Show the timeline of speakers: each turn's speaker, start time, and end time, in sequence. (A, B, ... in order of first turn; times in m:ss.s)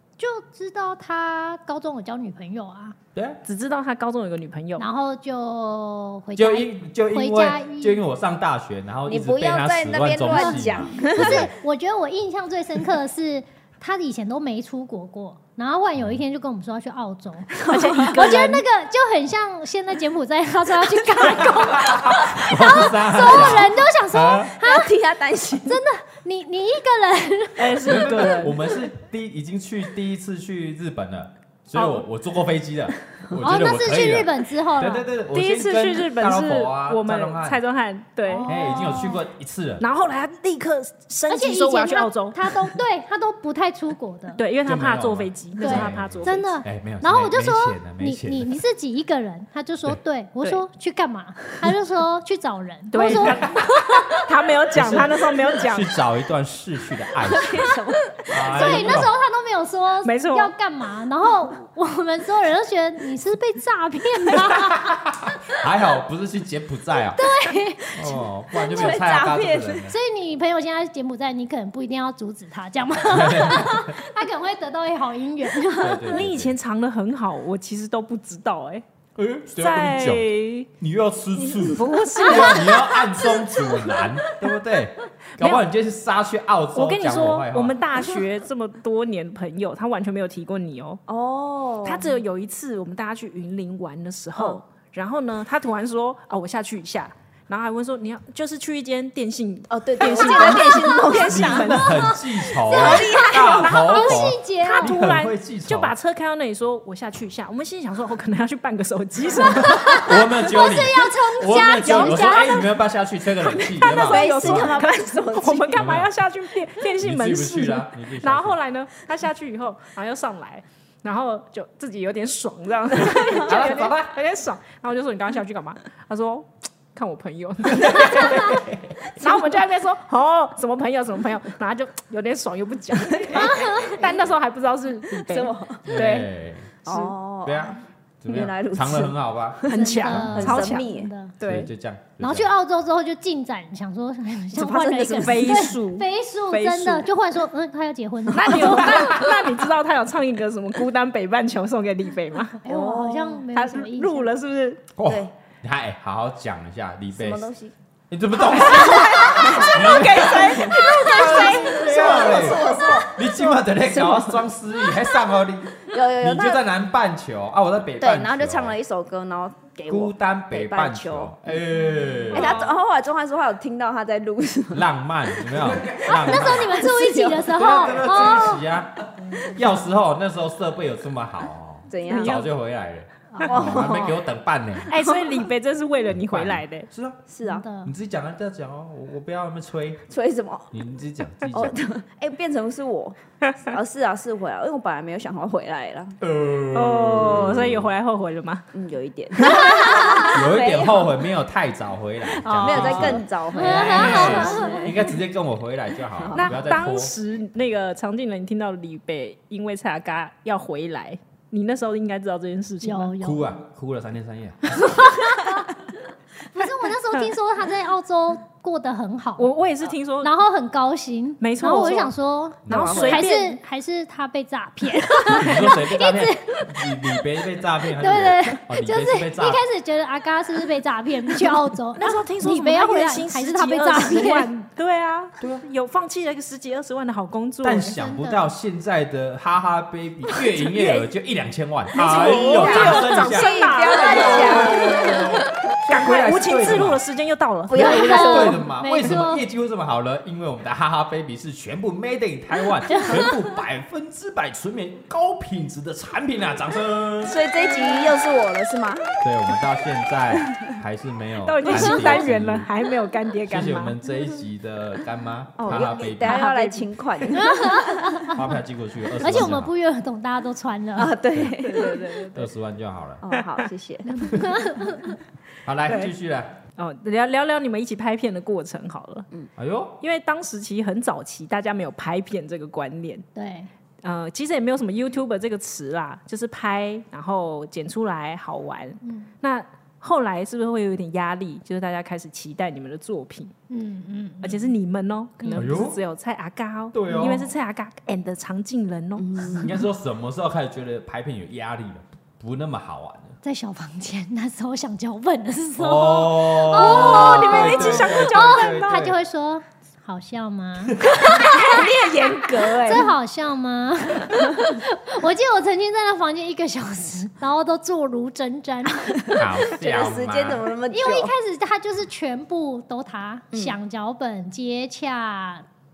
0:00.2-0:03.0 A
0:03.1-0:03.4 B
0:03.4-0:04.8 C
0:04.8-0:08.0 A
0:06.4-0:11.5 B
0:09.0-0:11.5 D
0:10.3-0:24.9 A
0:17.6-0:18.6 C
0:21.4-0:24.5 B
0:24.5-0:25.8 D
0:25.6-0:28.2 A
0:27.6-0:28.6 C
0:27.8-0:37.6 B
0:31.7-0:32.0 C
0:33.4-0:35.1 A
0:35.3-0:38.5 C
0:38.3-0:39.2 A
0:38.5-0:39.8 B
0:39.8-0:42.8 C
0:41.3-0:44.4 A
0:44.4-0:46.6 C
0:44.6-0:48.5 B
0:45.6-0:54.2 A
0:52.9-0:55.9 C
0:53.2-0:53.5 B
0:54.7-0:57.6 B
0:57.2-0:59.0 D
0:58.3-0:59.1 B
0:58.4-1:05.0 A
1:00.0-1:00.5 C
1:04.3-1:07.3 B
1:07.1-1:09.0 A
1:07.9-1:09.9 B
1:08.6-1:09.9 D
1:09.9-1:16.2 A
1:13.0-1:14.0 B
1:15.8-1:16.6 B
1:16.0-1:18.8 C
1:19.2-1:27.8 B
1:19.6-1:20.7 C
1:21.4-1:22.6 D
1:21.6-1:22.9 C
1:25.4-1:25.7 C
1:26.7-1:31.0 C
1:31.1-1:32.1 D
1:31.8-1:41.8 C
1:34.4-1:34.6 D
1:39.7-1:41.9 D
1:40.5-1:41.0 A
1:41.2-1:45.9 B
1:41.8-1:44.9 A
1:42.7-1:44.1 D
1:44.6-1:50.0 C
1:49.6-1:52.7 A
1:49.8-1:54.8 B
1:51.8-1:52.5 C
1:53.5-2:16.3 C
1:53.8-1:55.9 D
1:55.7-1:56.1 B
1:57.0-1:58.6 B
2:03.3-2:04.1 B
2:03.4-2:03.8 D
2:07.7-2:09.0 B
2:13.3-2:14.3 D
2:13.3-2:14.1 A
2:15.2-2:15.8 D
2:15.8-2:16.7 B
2:16.8-2:21.1 D
2:16.8-2:17.1 C
2:17.4-2:20.5 B
2:19.7-2:20.8 C
2:19.7-2:21.3 A
2:21.4-2:21.7 C
2:21.4-2:22.5 B
2:22.2-2:29.3 A
2:24.6-2:27.1 C
2:24.7-2:25.6 D
2:28.3-2:32.6 C
2:32.6-2:34.3 A
2:32.6-2:33.4 D
2:33.5-2:34.9 C
2:35.0-2:37.5 B
2:35.0-2:35.3 D
2:37.1-2:37.7 D
2:38.1-2:48.8 B
2:38.5-2:42.2 C
2:38.5-2:44.4 D
2:40.9-2:43.0 A
2:45.8-2:46.6 D
2:48.0-2:51.3 D
2:49.9-2:52.6 B
2:52.0-2:52.5 A
2:52.3-2:54.8 D
2:52.3-2:52.7 C
2:54.7-2:56.9 B
2:55.4-2:58.3 D
2:56.0-2:58.6 A
2:57.5-3:05.0 B
3:01.9-3:02.4 D
3:02.0-3:02.5 C
3:03.4-3:03.8 C
3:03.4-3:04.2 D
3:04.9-3:06.9 C
3:05.0-3:05.4 D
3:06.1-3:07.2 B
3:07.3-3:07.6 D
3:07.4-3:07.9 A
3:07.8-3:10.0 B
3:10.1-3:10.7 D
3:10.7-3:11.8 B
3:11.5-3:16.2 D
3:16.2-3:17.9 B
3:16.7-3:18.7 C
3:18.7-3:21.2 D
3:19.4-3:19.8 C
3:19.5-3:20.3 A
3:20.2-3:27.1 B
3:22.4-3:24.8 C
3:22.5-3:25.1 D
3:23.5-3:24.9 A
3:26.2-3:26.5 D
3:26.3-3:33.1 C
3:32.8-3:33.5 A
3:33.2-3:34.8 B
3:34.8-3:35.7 A
3:36.5-3:39.5 A
3:39.4-3:40.3 C
3:40.2-3:47.2 A
3:41.4-3:42.1 C
3:42.6-3:43.0 B
3:42.7-3:43.6 C
3:42.7-3:43.3 D
3:45.3-3:49.6 B
3:47.9-3:54.5 A
3:51.9-3:58.0 C
3:55.4-3:55.6 B
3:57.6-4:07.0 B
3:57.9-3:58.5 A
4:00.6-4:01.0 D
4:01.9-4:05.3 C
4:01.9-4:05.4 D
4:05.8-4:08.0 C
4:07.7-4:08.6 D
4:07.8-4:17.4 B
4:07.8-4:09.4 A
4:12.9-4:13.4 A
4:17.2-4:19.1 D
4:19.2-4:22.7 B
4:21.4-4:24.0 C
4:23.5-4:26.4 B
4:25.6-4:28.2 D
4:25.7-4:27.3 C
4:27.3-4:28.4 A
4:28.3-4:29.7 B
4:29.2-4:31.2 A
4:31.0-4:32.5 D
4:31.6-4:32.3 C
4:32.3-4:33.2 B
4:33.2-4:34.4 D
4:34.1-4:34.4 C
4:34.3-4:35.2 A
4:35.6-4:36.5 B
4:35.8-4:36.1 C
4:36.8-4:39.3 C
4:39.6-4:40.0 B
4:40.0-4:43.2 C
4:43.3-4:43.7 A
4:44.0-4:53.5 C
4:49.0-4:49.3 A
4:53.7-4:54.7 A
4:54.4-4:59.7 C
4:55.4-4:55.7 A
4:55.5-4:56.0 B
4:56.9-4:57.5 B
4:59.2-4:59.8 D
4:59.5-5:03.4 B
5:03.4-5:11.9 A
5:05.8-5:09.2 B
5:06.7-5:09.1 C
5:10.9-5:11.3 B
5:11.2-5:13.1 D
5:11.3-5:12.2 C
5:12.6-5:19.3 A
5:19.2-5:21.3 D
5:19.3-5:20.6 B
5:20.9-5:25.6 A